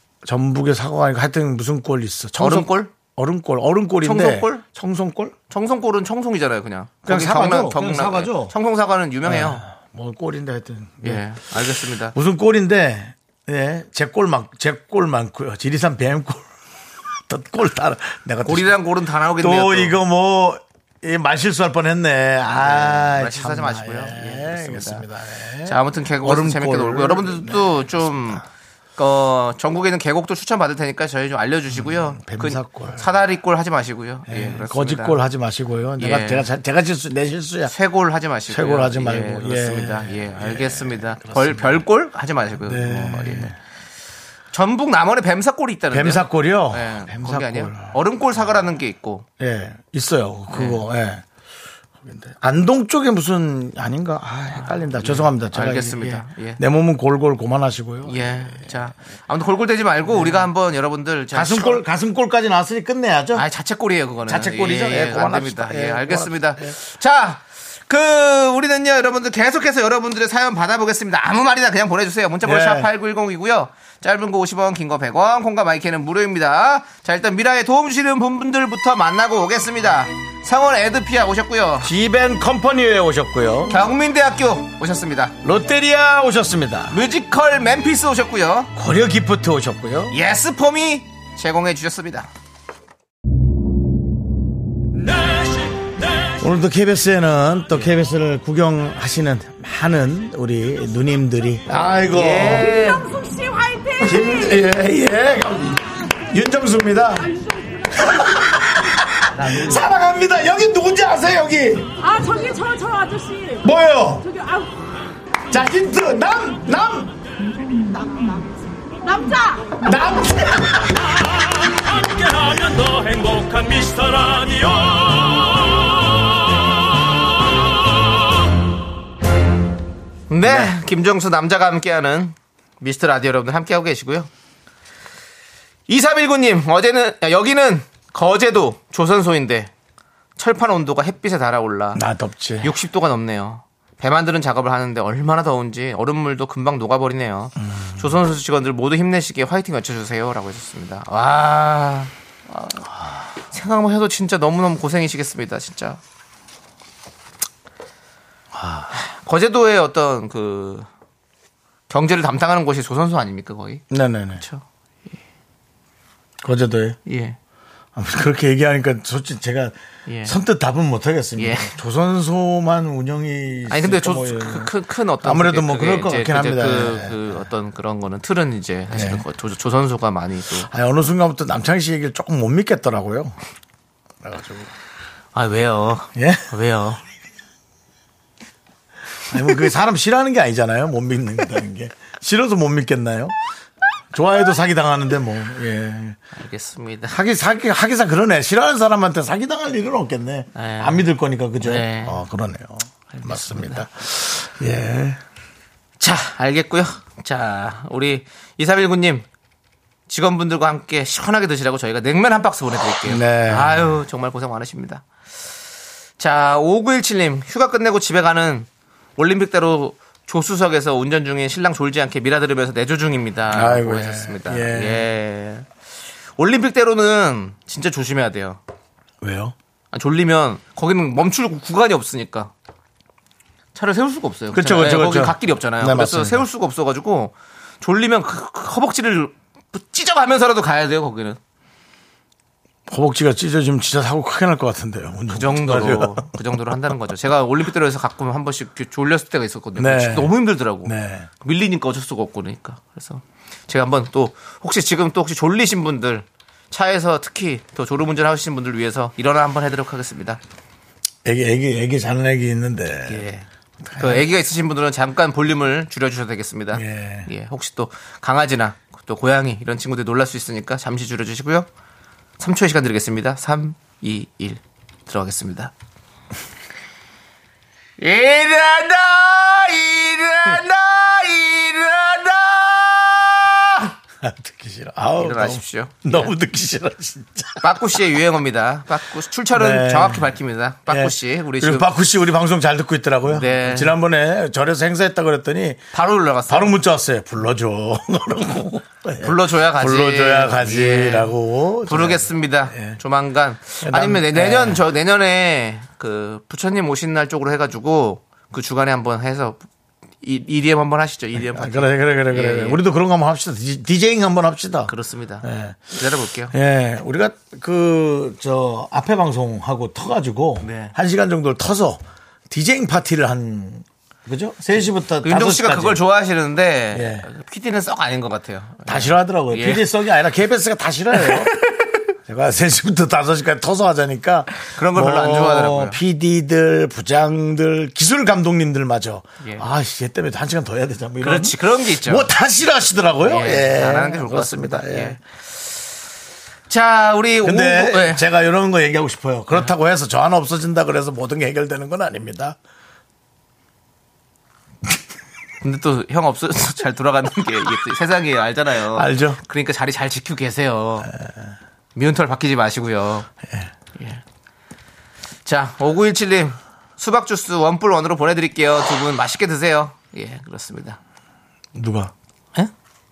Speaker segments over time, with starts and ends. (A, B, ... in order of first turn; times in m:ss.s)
0:00.2-0:05.3 A
0:02.4-0:02.9 B
0:04.0-0:04.6 B
0:05.5-0:09.6 B
0:07.0-0:08.5 A
0:09.2-0:11.2 A
0:11.0-0:12.1 B
0:12.1-0:16.4 A
0:17.3-0:18.8 A
0:18.4-0:20.0 B
0:19.4-0:28.4 A
0:22.5-0:25.0 B
0:25.6-0:28.4 B
0:29.0-0:35.2 B
0:31.7-0:33.1 A
0:34.3-0:37.7 A
0:36.0-0:36.4 B
0:37.7-0:43.5 B
0:38.5-0:41.8 A
0:42.6-0:43.6 A
0:44.5-0:49.2 B
0:45.9-0:48.0 A
0:49.4-0:51.2 A
0:50.5-0:50.8 B
0:52.0-0:58.8 A
0:54.6-0:56.6 B
0:58.0-1:01.8 B
1:00.1-1:00.5 A
1:01.3-1:03.4 A
1:03.3-1:21.9 B
1:04.3-1:06.8 A
1:12.4-1:12.9 A
1:21.8-1:23.8 A
1:23.7-1:25.3 B
1:25.4-1:27.0 A
1:26.9-1:28.7 B
1:28.7-1:30.2 A
1:30.1-1:32.3 B
1:34.9-1:36.4 C
1:36.4-1:42.8 A
1:42.1-1:43.0 B
1:42.6-1:44.6 D
1:44.0-1:47.3 A
1:47.2-1:48.2 D
1:47.9-1:51.9 A
1:49.3-1:49.8 B
1:52.0-1:53.7 D
1:53.6-1:54.2 A
1:54.2-1:54.8 D
1:55.5-1:57.1 A
1:59.0-1:59.8 D
1:59.8-2:01.2 A
2:00.9-2:06.6 C
2:10.3-2:14.3 B
2:10.4-2:10.7 A
2:15.9-2:19.7 B
2:20.4-2:22.0 B
2:21.9-2:22.7 A
2:22.6-2:32.9 B
2:27.6-2:28.1 A
2:33.5-2:36.0 B
2:38.5-2:38.9 A
2:38.9-2:40.9 B
2:41.9-2:43.8 B
2:43.9-2:44.4 A
2:44.4-2:44.6 B
2:46.4-2:47.0 A
2:47.0-2:47.4 B
2:47.9-2:57.4 A
2:50.1-2:50.4 B
2:51.4-2:51.7 B
2:53.7-3:00.7 B
2:58.9-2:59.2 A
3:00.6-3:03.4 A
3:04.2-3:04.7 A
3:05.3-3:07.0 B
3:06.1-3:06.5 A
3:09.3-3:13.3 A
3:14.1-3:16.2 A
3:16.3-3:17.2 B
3:17.1-3:25.2 A
3:20.5-3:21.1 B
3:21.6-3:22.2 B
3:23.1-3:23.8 B
3:26.0-3:29.2 B
3:30.1-3:35.0 B
3:33.0-3:34.0 A
3:36.2-3:45.7 B
3:43.5-3:45.0 A
3:46.4-3:48.6 B
3:49.2-3:49.5 A
3:49.9-3:52.5 B
3:53.7-4:01.4 B
3:54.5-3:56.4 A
4:02.9-4:06.4 A
4:05.3-4:20.4 B
4:09.8-4:11.3 A
4:21.2-4:23.2 A
4:23.1-4:31.7 B
4:23.9-4:24.2 A
4:26.7-4:27.3 A
4:32.4-4:35.7 B
4:38.0-4:43.9 B
4:44.2-4:47.8 A
4:45.2-4:46.3 B
4:47.6-4:51.9 B
4:49.5-4:50.3 A
4:50.9-4:55.8 A
4:53.3-4:53.9 B
4:55.9-4:56.7 B
4:56.5-5:03.0 A
4:59.2-5:01.3 B
5:01.8-5:09.6 B
5:03.8-5:04.8 A
5:10.2-5:12.8 B
5:11.3-5:15.9 A
5:14.9-5:16.5 B
5:16.5-5:26.0 A
5:20.6-5:20.9 B
5:25.2-5:29.8 B
5:26.9-5:27.3 A
5:28.8-5:31.5 A
5:31.2-5:31.9 B
5:32.2-5:45.2 A
5:34.7-5:36.0 B
5:41.2-5:42.3 B
5:43.2-5:45.2 B
5:46.7-5:48.2 B
5:47.4-5:52.6 A
5:55.6-6:01.1 B
5:58.9-5:59.4 A
6:01.1-6:01.4 A
6:01.9-6:03.3 B
6:04.0-6:04.2 B
6:05.4-6:11.0 B
6:11.7-6:12.1 A